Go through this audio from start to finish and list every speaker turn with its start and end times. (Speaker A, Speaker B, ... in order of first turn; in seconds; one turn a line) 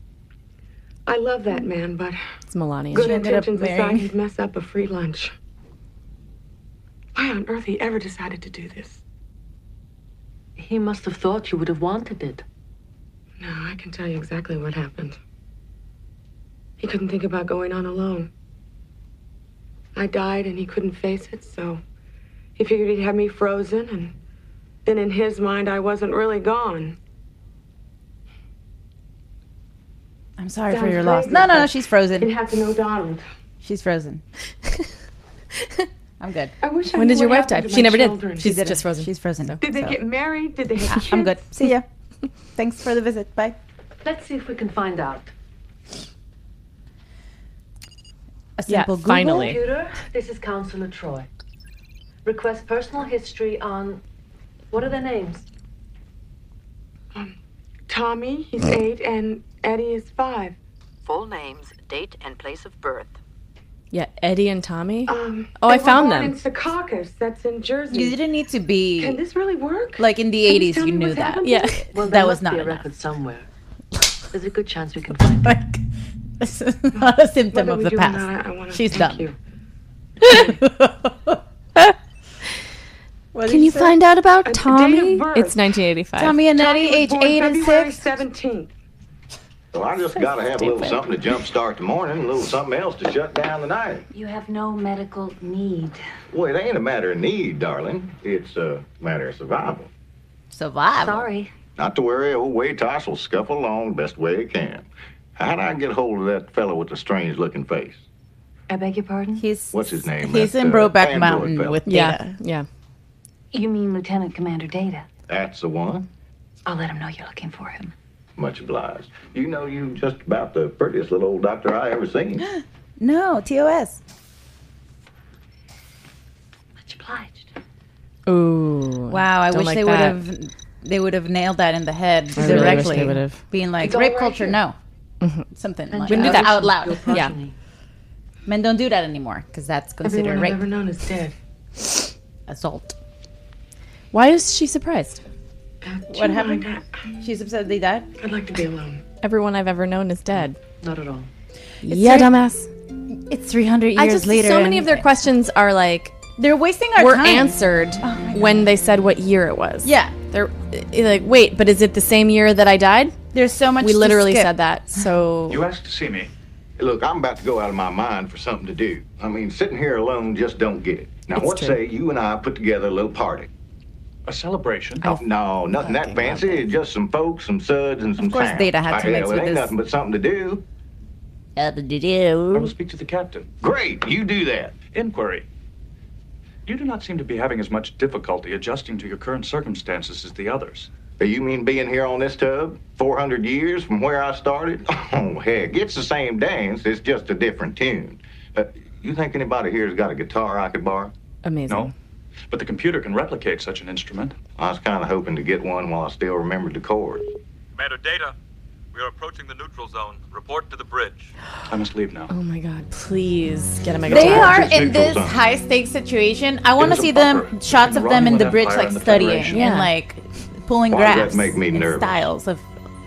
Speaker A: 1.1-2.2
Speaker B: 2.5-3.2
Speaker A: 2.9-5.3
Speaker C: 3.0-4.1
Speaker A: 7.1-9.0
Speaker D: 10.6-12.4
Speaker A: 13.4-15.2
Speaker A: 16.8-18.3
Speaker A: 19.9-21.8
Speaker A: 22.6-24.1
Speaker A: 24.8-27.0
Speaker C: 30.4-32.3
Speaker A: 30.7-33.2
Speaker C: 33.6-34.2
Speaker B: 35.5-35.9
Speaker C: 36.2-36.5
Speaker A: 36.6-38.6
Speaker B: 36.9-39.6
Speaker C: 38.4-40.0
Speaker A: 39.6-41.4
Speaker C: 40.9-41.9
Speaker C: 42.5-43.6
Speaker D: 44.0-45.3
Speaker C: 48.6-49.6
Speaker B: 48.7-49.6
Speaker D: 49.3-51.3
Speaker D: 52.2-54.0
Speaker D: 54.7-55.4
Speaker A: 57.9-60.6
Speaker E: 61.0-63.2
Speaker B: 63.9-66.4
Speaker A: 65.1-68.2
Speaker C: 67.9-69.2
Speaker A: 69.0-71.7
Speaker C: 70.0-72.9
Speaker B: 71.4-71.8
Speaker D: 71.9-73.5
Speaker D: 74.3-75.6
Speaker C: 75.2-75.8
Speaker C: 76.4-79.3
Speaker A: 77.0-79.3
Speaker C: 80.3-81.4
Speaker C: 83.3-83.9
Speaker B: 83.5-86.4
Speaker A: 84.4-85.7
Speaker C: 86.2-88.1
Speaker A: 86.5-88.7
Speaker F: 89.7-94.0
Speaker B: 90.6-91.1
Speaker G: 94.1-96.0
Speaker F: 96.3-99.9
Speaker C: 100.5-101.2
Speaker G: 100.9-101.5
Speaker F: 101.8-108.0
Speaker G: 108.7-109.4
Speaker C: 109.4-112.2
Speaker F: 109.7-111.8
Speaker B: 111.8-112.7
Speaker G: 113.5-115.1
Speaker F: 115.3-116.1
Speaker G: 116.6-117.9
Speaker F: 118.4-122.4
Speaker C: 122.5-124.0
Speaker G: 126.9-127.4
Speaker D: 127.0-127.4
Speaker B: 128.3-130.2
Speaker C: 129.1-134.8
Speaker B: 132.3-133.4
Speaker A: 133.8-134.6
Speaker B: 135.2-135.4
Speaker C: 135.5-137.2
Speaker D: 135.9-137.5
Speaker B: 136.1-137.3
Speaker C: 138.5-140.6
Speaker A: 140.0-141.3
Speaker C: 142.5-142.9
Speaker B: 144.1-145.2
Speaker A: 145.8-146.9
Speaker C: 146.1-146.7
Speaker C: 147.2-148.1
Speaker A: 148.2-149.0
Speaker B: 149.2-150.6
Speaker D: 150.8-151.3
Speaker C: 151.8-152.3
Speaker B: 151.8-152.7
Speaker C: 153.1-155.1
Speaker B: 153.9-156.2
Speaker C: 156.4-158.8
Speaker B: 156.9-163.2
Speaker C: 159.8-160.1
Speaker C: 163.3-164.5
Speaker B: 163.8-165.6
Speaker H: 165.5-166.3
Speaker F: 166.8-173.5
Speaker B: 171.3-171.8
Speaker H: 174.2-175.1
Speaker F: 175.1-180.6
Speaker B: 175.8-176.6
Speaker C: 178.2-179.7
Speaker C: 181.6-182.7
Speaker H: 182.5-183.5
Speaker F: 183.6-184.8
Speaker H: 184.9-185.4
Speaker H: 186.7-190.9
Speaker F: 191.2-201.1
Speaker B: 201.4-201.9
Speaker H: 201.7-201.9
Speaker H: 202.5-204.3
Speaker F: 204.6-207.3
Speaker I: 207.8-208.3
Speaker I: 208.9-211.3
Speaker H: 211.7-212.3
Speaker B: 212.3-214.8
Speaker F: 214.1-215.4
Speaker C: 214.1-222.6
Speaker H: 216.8-219.7
Speaker B: 219.5-219.9
Speaker F: 220.9-222.3